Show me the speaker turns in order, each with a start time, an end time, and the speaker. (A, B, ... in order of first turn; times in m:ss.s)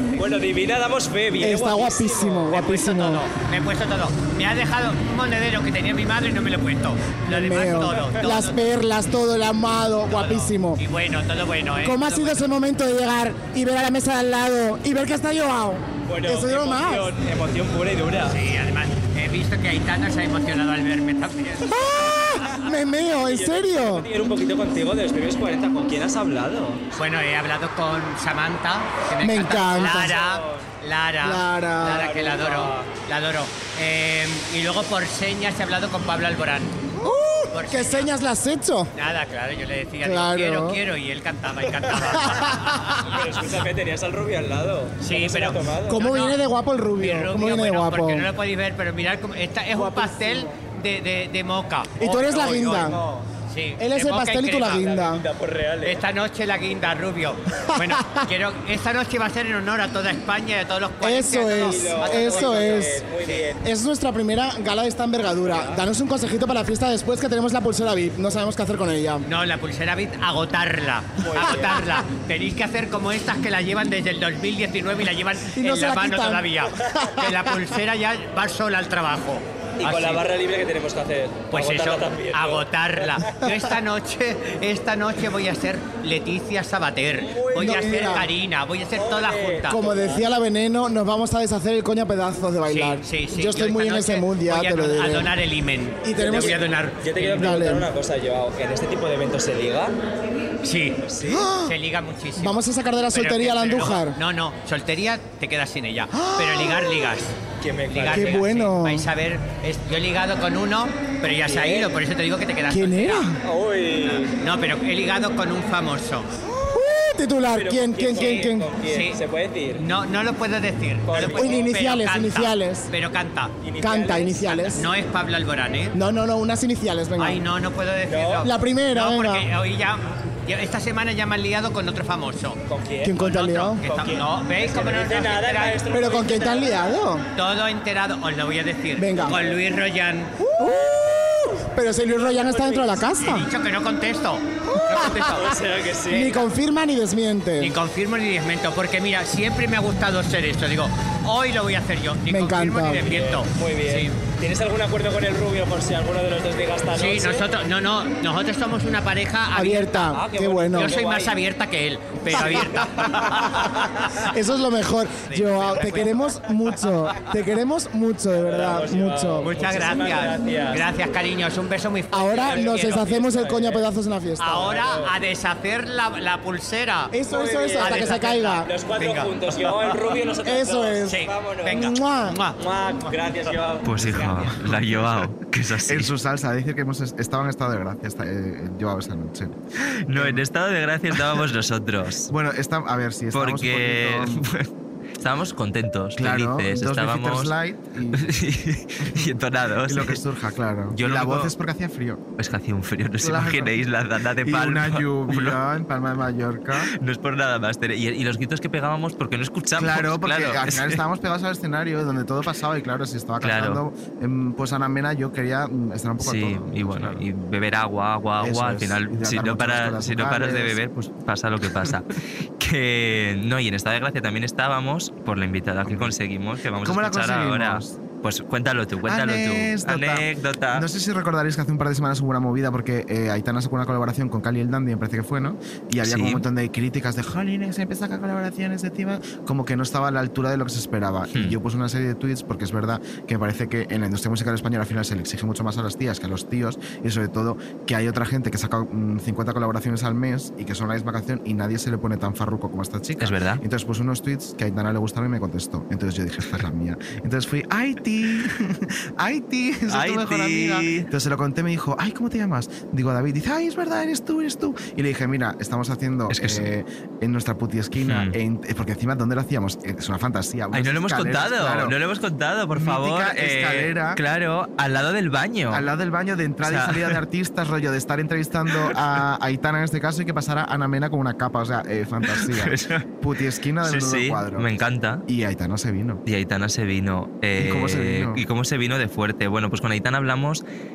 0:00.2-0:02.6 A
0:01.4-0:03.2 B
0:02.5-0:08.6 C
0:07.3-0:10.8 B
0:10.1-0:12.5 C
0:11.8-0:17.1 B
0:16.0-0:18.4 A
0:18.2-0:22.0 C
0:21.7-0:24.1 B
0:23.0-0:26.8 A
0:27.0-0:36.7 C
0:29.2-0:30.2 B
0:29.8-0:30.7 A
0:31.2-0:32.1 B
0:31.9-0:33.0 A
0:37.0-0:38.9 B
0:37.5-0:38.1 C
0:38.9-0:42.6 C
0:40.0-0:40.8 B
0:41.6-0:42.0 A
0:42.2-0:43.0 B
0:43.1-0:46.1 A
0:45.0-0:46.4 C
0:45.8-0:48.3 B
0:47.0-0:55.0 C
0:49.7-0:50.5 B
0:52.0-0:53.0 B
0:53.8-0:55.2 B
0:54.8-0:56.0 A
0:55.8-1:03.5 C
0:57.7-0:58.2 B
1:01.0-1:03.0 B
1:01.5-1:03.6 A
1:03.6-1:09.2 B
1:05.4-1:05.8 A
1:09.2-1:20.2 C
1:11.2-1:11.8 A
1:11.4-1:11.8 B
1:15.5-1:17.5 B
1:19.8-1:23.4 A
1:21.5-1:29.8 C
1:27.2-1:28.1 A
1:27.6-1:28.3 B
1:28.9-1:30.2 A
1:29.7-1:35.3 B
1:32.7-1:37.1 C
1:36.0-1:36.6 B
1:36.2-1:39.9 A
1:37.2-1:37.9 B
1:40.6-1:42.6 C
1:41.0-1:41.4 A
1:41.2-1:41.7 B
1:42.4-1:44.2 B
1:43.1-1:47.3 C
1:46.1-1:47.1 B
1:47.6-1:48.6 A
1:47.9-1:53.3 C
1:48.1-1:49.1 B
1:51.4-1:52.0 A
1:52.7-1:53.4 B
1:53.4-1:54.3 A
1:54.0-1:56.3 C
1:56.5-1:58.8 B
1:57.5-1:59.8 A
1:58.8-1:59.2 C
1:59.7-2:03.5 C
2:01.0-2:01.7 A
2:01.3-2:02.9 B
2:03.6-2:04.8 A
2:03.8-2:04.8 B
2:04.7-2:05.9 C
2:05.9-2:07.4 B
2:07.2-2:12.6 C
2:08.1-2:08.5 A
2:08.4-2:09.5 B
2:12.7-2:16.9 A
2:13.0-2:13.8 B
2:13.2-2:16.2 C
2:15.9-2:17.2 B
2:17.4-2:20.3 C
2:19.0-2:19.4 B
2:20.4-2:23.5 B
2:22.2-2:23.1 A
2:23.2-2:25.1 C
2:24.7-2:25.5 B
2:24.9-2:26.4 A
2:26.1-2:27.7 B
2:27.6-2:34.2 C
2:32.3-2:33.0 B
2:33.0-2:37.5 A
2:36.9-2:40.1 C
2:39.5-2:40.9 B
2:40.1-2:41.3 A
2:40.7-2:43.7 C
2:42.3-2:42.7 B
2:42.3-2:43.3 A
2:44.3-2:49.5 B
2:45.3-2:46.3 C
2:45.7-2:46.1 A
2:48.3-2:50.9 A
2:49.4-2:53.1 C
2:52.1-2:54.7 B
2:52.4-2:53.9 A
2:54.4-2:57.1 C
2:54.6-2:55.1 A
2:57.1-2:58.7 B
2:57.2-3:01.9 A
2:57.8-3:00.0 C
3:00.4-3:01.2 B
3:01.0-3:03.2 C
3:01.7-3:02.4 B
3:02.6-3:04.4 A
3:03.8-3:06.1 D
3:03.9-3:05.3 E
3:05.8-3:09.5 E
3:10.1-3:12.3 D
3:10.1-3:10.4 E
3:11.1-3:11.4 E
3:12.3-3:14.4 E
3:13.3-3:17.5 D
3:16.2-3:18.3 E
3:18.1-3:20.2 D
3:19.0-3:19.3 E
3:19.8-3:22.2 E
3:20.9-3:21.5 D
3:22.4-3:25.6 D
3:23.2-3:23.9 E
3:24.4-3:26.9 E
3:26.8-3:31.0 D
3:29.7-3:37.2 E
3:33.4-3:33.8 D
3:36.2-3:42.1 D
3:38.4-3:40.8 E
3:42.6-3:50.8 D
3:45.8-3:46.1 E
3:46.8-3:48.0 E
3:49.0-4:32.0 E
3:56.0-3:56.4 D
4:13.2-4:13.6 D
4:19.9-4:21.1 D
4:26.3-4:26.7 D
4:28.0-4:28.3 D
4:30.7-4:35.8 D
4:32.7-4:34.2 E
4:35.7-4:44.7 E
4:36.6-4:37.2 D
4:42.3-4:43.0 D
4:43.8-4:45.2 D
4:45.3-4:46.2 E
4:46.2-4:50.6 D
4:47.6-4:48.4 E